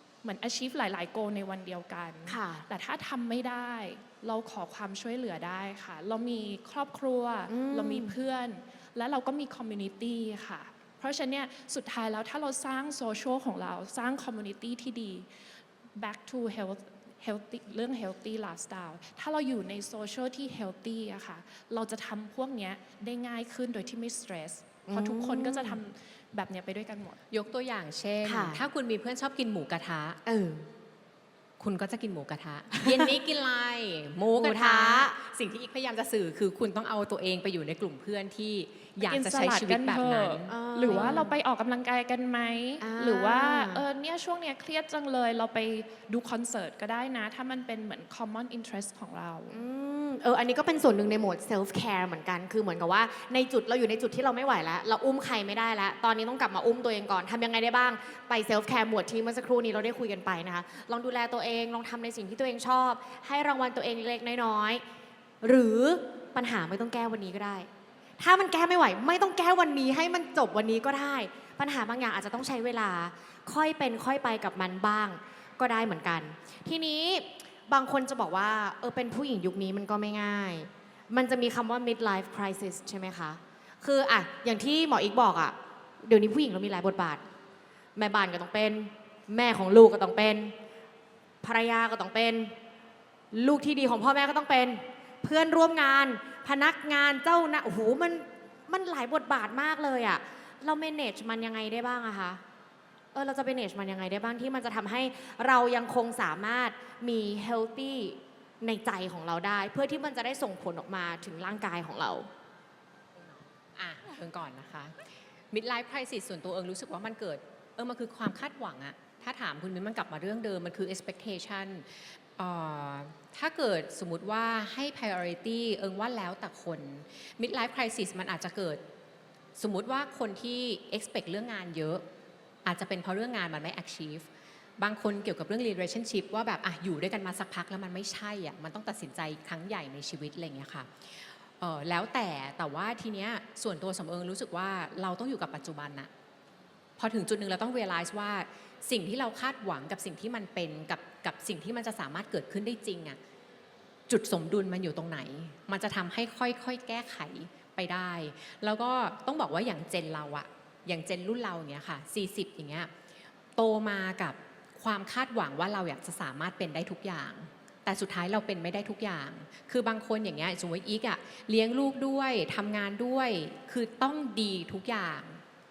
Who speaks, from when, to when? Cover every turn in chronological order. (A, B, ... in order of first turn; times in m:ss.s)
0:00.2-0:15.3 A
0:02.3-0:02.6 B
0:07.5-0:08.2 B
0:16.0-0:27.2 A
0:24.8-0:25.8 B
0:27.3-0:30.2 C
0:28.2-0:28.6 B
0:30.2-0:30.7 B
0:31.6-0:41.2 C
0:32.7-0:33.1 B
0:34.4-0:35.2 B
0:39.0-0:49.6 A
0:40.5-0:41.3 B
0:42.8-0:43.8 B
0:49.5-1:04.8 B
1:05.4-1:27.2 B
1:28.0-1:30.5 B
1:31.4-1:32.5 B
1:33.3-1:42.4 B
1:43.1-1:52.3 B
1:53.2-2:08.8 C
2:09.6-2:12.0 C
2:12.6-2:14.3 C
2:14.8-2:26.1 C
2:27.0-2:33.2 C
2:34.1-2:42.9 C
2:43.6-2:55.4 C